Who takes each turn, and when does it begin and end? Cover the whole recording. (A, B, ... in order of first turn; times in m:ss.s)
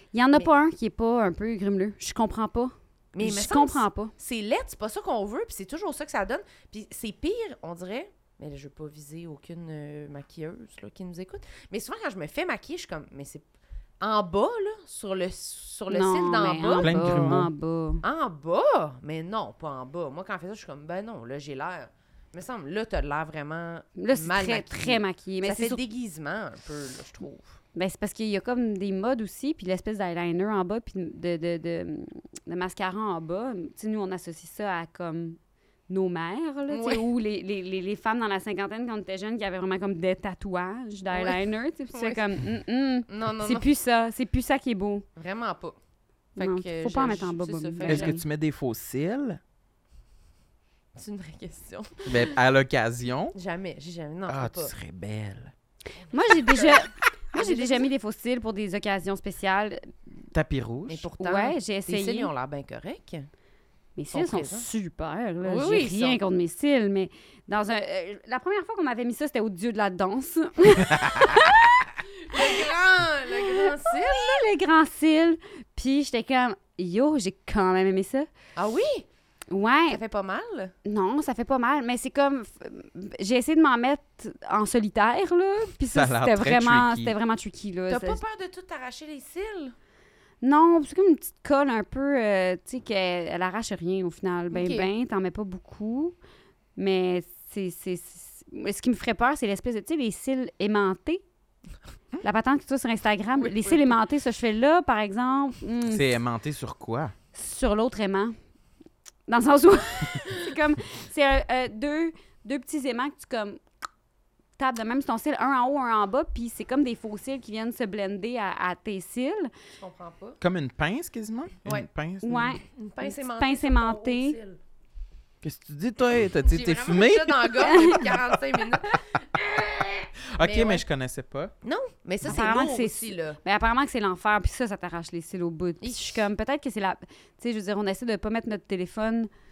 0:00.1-0:04.1 A
0:03.1-0:13.5 B
0:14.0-0:17.0 B
0:15.9-0:18.0 A
0:16.6-0:17.5 C
0:18.0-0:27.5 B
0:24.0-0:25.8 A
0:27.8-0:45.1 A
0:36.7-0:37.0 B
0:41.1-0:42.3 B
0:43.1-0:43.7 B
0:45.2-0:45.8 B
0:46.4-0:48.2 A
0:46.4-0:48.2 B
0:47.9-0:49.4 C
0:51.0-0:52.3 B
0:52.1-0:53.4 C
0:53.3-0:54.7 B
0:54.3-0:55.5 C
0:56.1-0:59.9 A
0:56.3-0:57.9 B
1:00.3-1:01.1 C
1:00.9-1:03.3 B
1:01.2-1:02.3 A
1:04.0-1:12.6 A
1:04.1-1:04.7 B
1:05.4-1:06.2 B
1:12.2-1:14.5 B
1:13.4-1:18.3 A
1:18.6-1:19.1 B
1:19.5-1:20.0 A
1:19.9-1:20.7 B
1:20.8-1:28.2 A
1:25.9-1:27.1 C
1:27.9-1:29.8 B
1:30.4-1:36.2 A
1:34.5-1:34.9 B
1:36.8-1:41.2 A
1:42.2-1:46.0 A
1:43.4-1:43.8 B
1:45.9-1:47.1 C
1:47.3-1:48.4 A
1:49.3-1:53.6 A
1:54.6-1:59.5 A
1:59.7-2:00.4 B
2:00.4-2:02.6 C
2:02.2-2:04.4 A
2:02.8-2:04.6 B
2:05.4-2:08.3 C
2:06.4-2:10.8 B
2:07.7-2:08.0 A
2:10.3-2:11.5 C
2:11.6-2:13.4 B
2:12.2-2:19.3 A
2:15.8-2:16.2 B